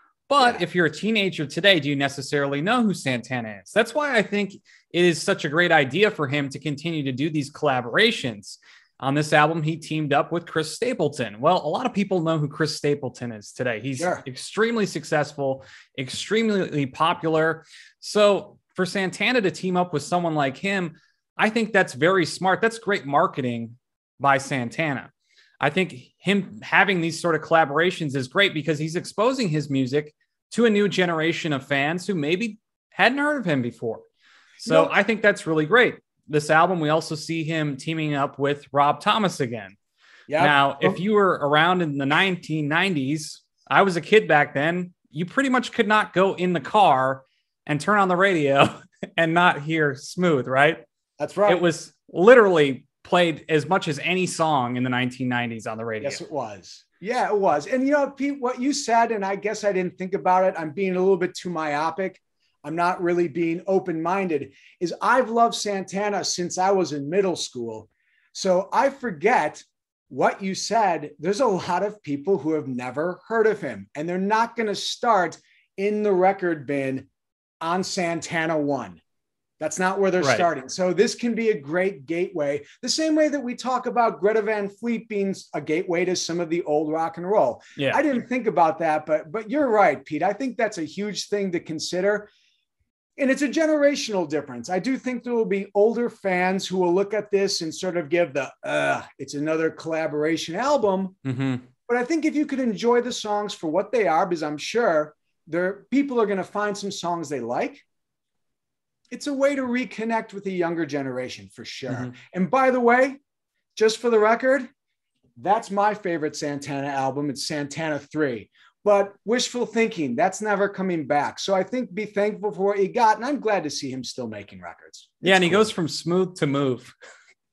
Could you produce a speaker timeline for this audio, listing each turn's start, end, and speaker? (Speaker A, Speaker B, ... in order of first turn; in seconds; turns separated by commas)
Speaker A: 0.3-34.1, Speaker B: 14.0-14.2, Speaker B: 34.6-34.9, Speaker A: 34.6-39.8, Speaker B: 40.3-41.0, Speaker A: 40.4-50.8, Speaker B: 51.2-51.6, Speaker A: 51.5-56.2, Speaker B: 56.0-77.1, Speaker B: 77.6-79.0, Speaker B: 79.6-92.3, Speaker A: 80.2-80.5, Speaker A: 87.8-88.1, Speaker B: 93.2-101.2, Speaker A: 101.2-101.7, Speaker B: 101.9-107.8, Speaker B: 109.1-113.2, Speaker A: 111.9-112.1, Speaker B: 113.8-114.7, Speaker B: 115.4-125.7, Speaker A: 125.2-126.9